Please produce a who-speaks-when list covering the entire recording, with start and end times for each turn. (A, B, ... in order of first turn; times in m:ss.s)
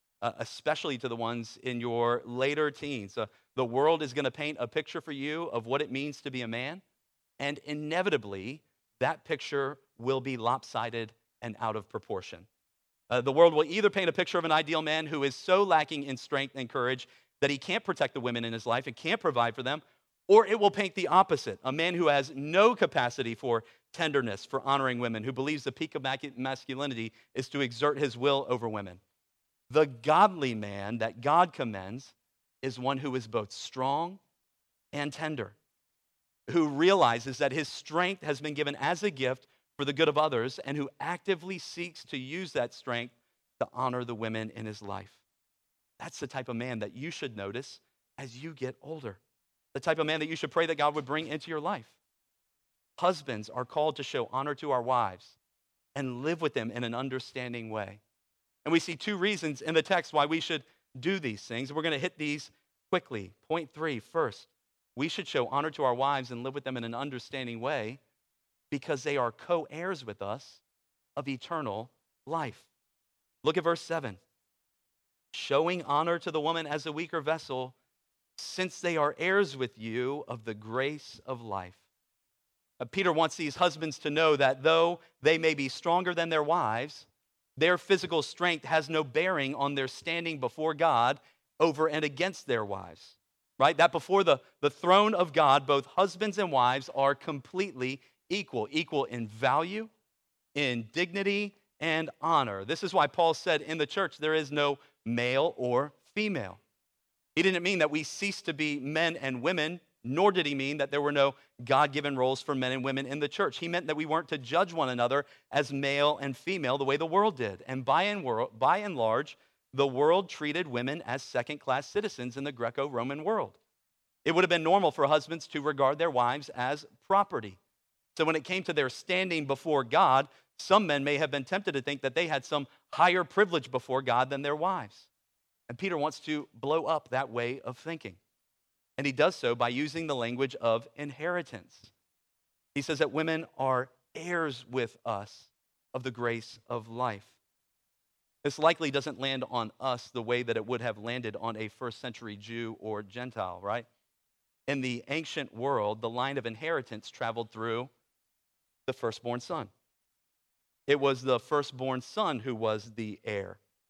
0:00.2-0:06.8 A
0:07.4-0:12.5 A
0:13.1-0:29.0 A
0:29.7-0:34.2 A
0:34.9-0:35.6 A
0:36.5-0:45.2 A
0:46.0-0:49.2 A
0:49.7-0:52.0 A
0:53.0-0:55.4 A
0:55.9-0:58.0 A
0:58.6-1:08.0 A
1:08.7-1:10.6 A
1:11.2-1:12.7 A
1:13.4-1:14.2 A
1:15.3-1:17.8 A
1:18.4-1:21.8 A
1:22.8-1:27.0 A
1:27.6-1:39.9 A
1:40.5-1:46.6 A
1:47.4-2:03.6 A
2:04.2-2:07.6 A
2:08.1-2:15.1 A
2:15.7-2:18.2 A
2:19.0-2:21.9 A
2:22.7-2:27.3 A
2:28.4-2:33.8 A
2:34.7-2:37.9 A
2:38.9-2:39.7 A
2:40.9-2:43.6 A